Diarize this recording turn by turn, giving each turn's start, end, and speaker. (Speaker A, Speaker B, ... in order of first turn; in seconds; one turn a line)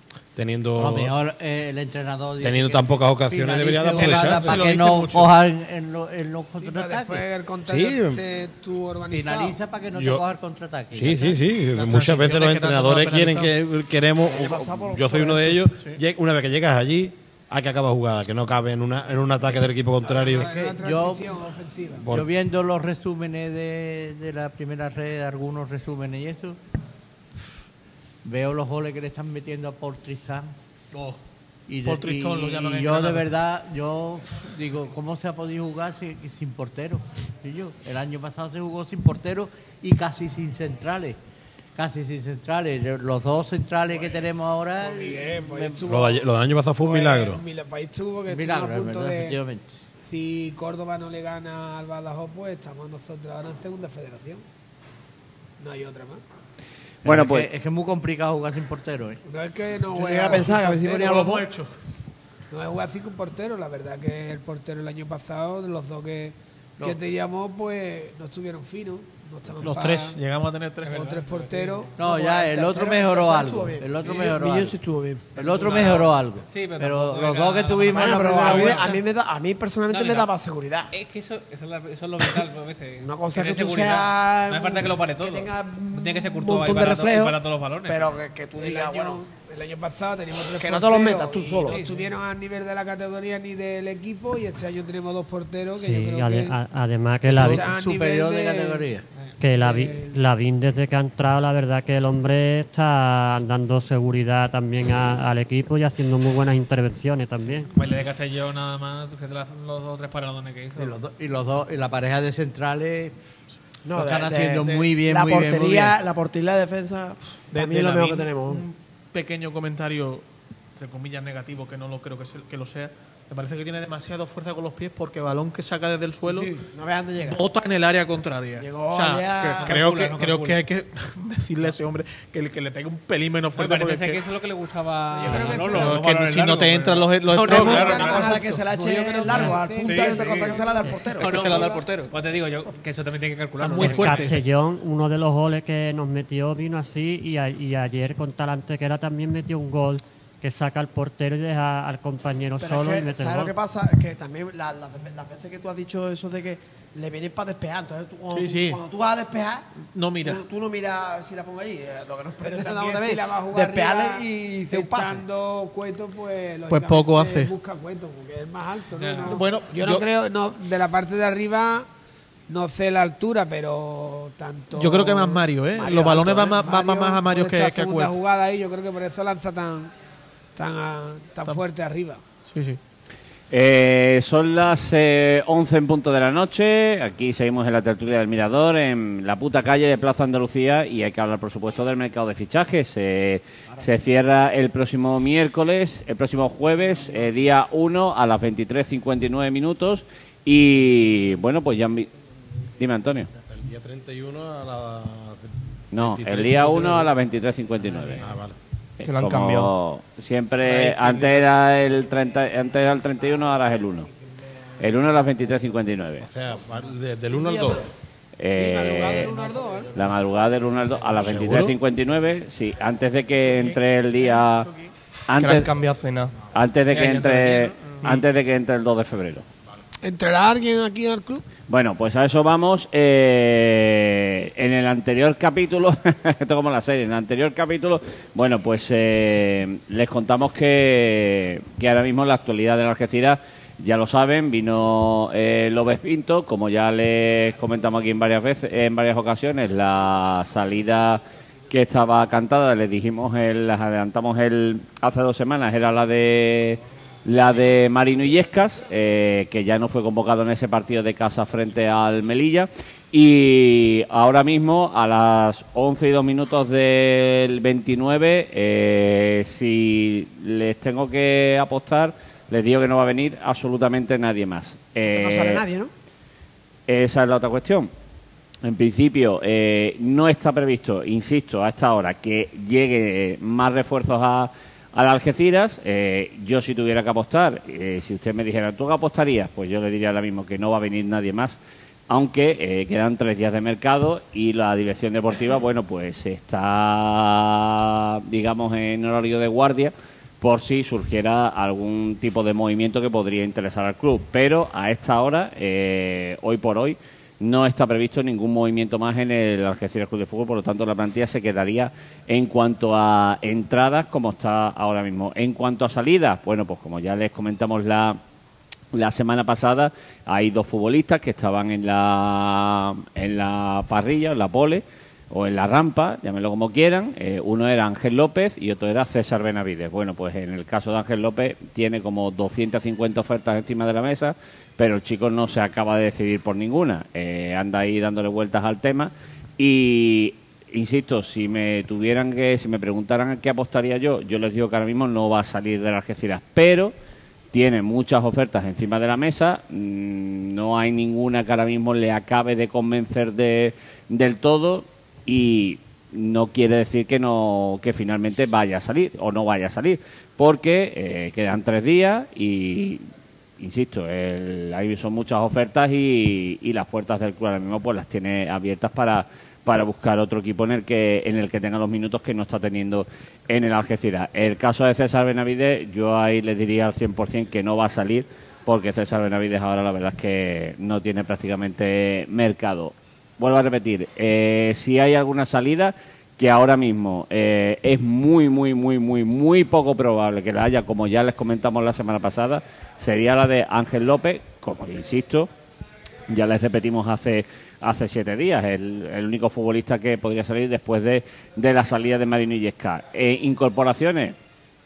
Speaker A: 0.3-1.1
Speaker B: 0.8-7.3
Speaker A: 2.4-4.7
Speaker C: 4.0-5.3
Speaker D: 6.6-9.6
Speaker A: 7.7-8.2
Speaker B: 9.1-11.4
Speaker A: 9.9-10.2
Speaker A: 10.9-20.8
Speaker C: 11.8-13.6
Speaker E: 14.2-15.7
Speaker D: 20.0-22.1
Speaker B: 20.6-21.3
Speaker A: 22.0-22.3
Speaker B: 22.1-26.6
Speaker B: 28.2-30.5
Speaker C: 30.9-31.2
Speaker B: 31.7-41.2
Speaker C: 31.9-33.3
Speaker B: 41.8-45.8
Speaker D: 43.9-44.2
Speaker D: 44.8-46.3
Speaker A: 45.9-47.4
Speaker D: 46.8-49.4
Speaker B: 48.3-49.8
Speaker D: 50.1-54.4
Speaker D: 55.6-56.2
Speaker F: 57.0-57.5
Speaker B: 57.0-59.2
Speaker D: 59.3-61.0
Speaker E: 59.9-61.5
Speaker C: 60.4-61.7
Speaker D: 62.5-70.2
Speaker C: 69.6-71.1
Speaker G: 70.8-71.9
Speaker D: 70.9-72.9
Speaker B: 72.0-74.8
Speaker E: 72.1-75.4
Speaker B: 75.4-78.9
Speaker G: 75.4-79.0
Speaker E: 77.9-80.9
Speaker G: 79.9-80.3
Speaker G: 80.9-88.2
Speaker E: 83.0-89.2
Speaker D: 88.6-96.6
Speaker E: 90.6-91.8
Speaker G: 91.7-91.9
Speaker H: 95.8-97.7
Speaker B: 97.3-99.0
Speaker D: 97.3-98.9
Speaker H: 99.4-107.7
Speaker D: 99.6-100.2
Speaker G: 107.7-111.0
Speaker B: 110.8-113.1
Speaker E: 113.8-118.6
Speaker B: 113.9-116.0
Speaker C: 117.5-126.6
Speaker E: 126.2-127.4
Speaker C: 127.2-134.2
Speaker E: 128.6-129.8
Speaker G: 129.4-130.6
Speaker G: 133.6-138.3
Speaker D: 135.1-136.0
Speaker C: 135.3-138.6
Speaker E: 137.4-141.6
Speaker D: 138.2-140.3
Speaker C: 139.4-142.1
Speaker G: 141.2-144.3
Speaker C: 143.6-144.4
Speaker H: 143.6-153.5
Speaker E: 152.6-159.7
Speaker C: 158.3-158.8
Speaker C: 159.9-160.4
Speaker E: 160.2-165.2
Speaker D: 162.4-171.9
Speaker C: 166.7-167.5
Speaker G: 169.0-169.4
Speaker C: 169.3-170.1
Speaker D: 172.5-179.9
Speaker C: 174.7-178.2
Speaker E: 175.8-177.2
Speaker D: 180.6-182.2
Speaker C: 182.5-182.8
Speaker F: 183.5-202.1
Speaker F: 202.8-203.3
Speaker A: 203.5-207.1
Speaker F: 205.9-208.2
Speaker A: 208.1-208.6
Speaker F: 209.0-214.1
Speaker I: 209.0-209.7
Speaker I: 210.7-211.2
Speaker F: 214.8-216.3
Speaker A: 216.2-217.9
Speaker D: 217.3-217.8
Speaker F: 218.4-219.4
Speaker D: 218.5-220.0
Speaker F: 219.9-224.7
Speaker A: 221.2-221.8
Speaker F: 225.3-225.7
Speaker I: 225.4-226.3
Speaker F: 226.5-229.4
Speaker G: 226.9-228.0
Speaker D: 230.0-231.4
Speaker F: 231.7-275.6
Speaker E: 275.1-275.9
Speaker F: 276.9-277.9
Speaker F: 278.6-291.6
Speaker F: 292.1-318.2
Speaker F: 318.9-346.9
Speaker F: 347.5-363.0
Speaker F: 363.6-395.5
Speaker F: 396.3-404.4